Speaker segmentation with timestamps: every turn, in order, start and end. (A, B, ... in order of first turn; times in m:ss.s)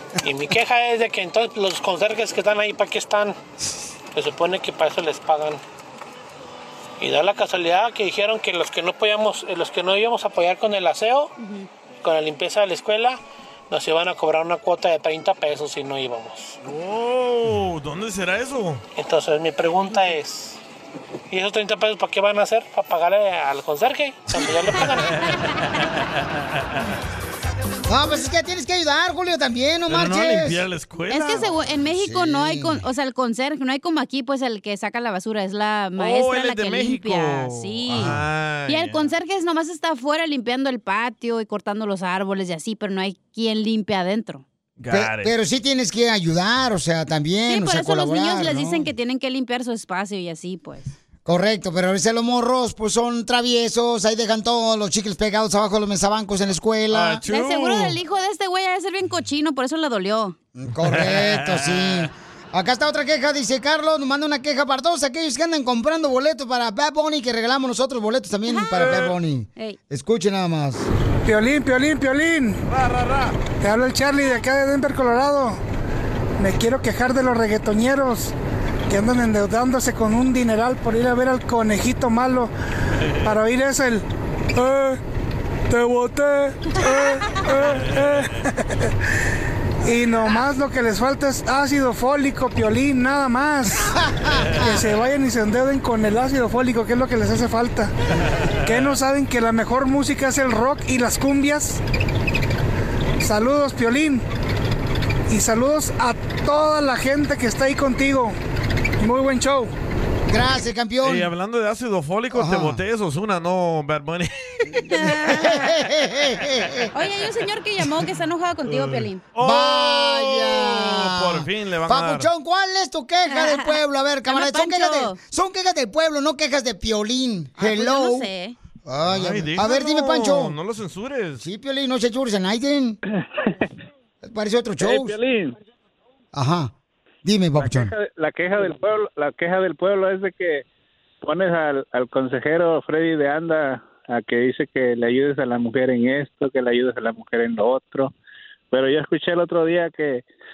0:00.2-0:03.4 A
0:04.2-0:05.6 A
0:07.0-0:11.3 A
0:11.4-0:11.7 B
0:12.0-0:13.2 A
0:13.7-0:16.6 A
0:16.6-0:18.8 C
0:19.0-0:20.6 A
0:21.3-0:25.2 A
0:27.9-0:30.6 D
0:29.9-0:31.5 C
0:31.1-0:38.2 B
0:31.9-0:32.8 D
0:36.0-0:39.1 C
0:37.9-0:38.2 D
0:38.7-0:44.4 B
0:44.8-0:45.3 C
0:44.9-0:48.9 D
0:47.5-0:50.9 B
0:51.2-0:57.2 D
0:56.9-0:58.0 C
0:57.3-1:00.4 B
1:00.6-1:10.9 D
1:00.8-1:02.1 C
1:08.5-1:08.9 B
1:08.8-1:09.1 C
1:11.3-1:12.6 E
1:12.7-1:13.4 C
1:13.6-1:15.6 E
1:16.4-1:18.3 E
1:18.9-1:22.5 E
1:23.0-1:23.3 C
1:23.2-1:24.0 E
1:24.6-1:25.0 E
1:25.7-1:28.2 E
1:27.8-1:28.3 C
1:29.8-1:33.8 E
1:33.7-1:34.8 D
1:34.7-1:37.9 E
1:38.5-1:38.8 C
1:38.7-1:41.8 E
1:43.2-1:44.2 E
1:45.3-1:48.3 E
1:49.0-1:49.7 E
1:50.3-1:51.3 D
1:51.0-1:54.9 C
1:52.3-1:52.8 D
1:54.9-1:55.8 B
1:55.0-1:56.9 D
1:56.9-1:59.2 B
1:58.6-2:02.3 C
1:59.4-2:08.3 D
2:03.3-2:03.8 B
2:04.3-2:05.2 B
2:07.6-2:08.6 B
2:08.9-2:10.6 D
2:09.1-2:11.4 C
2:11.4-2:13.0 D
2:14.2-2:15.2 D
2:14.8-2:15.6 F
2:16.3-2:16.7 D
2:17.2-2:17.9 D
2:17.6-2:20.6 F
2:21.2-2:28.1 F
2:28.7-2:30.3 F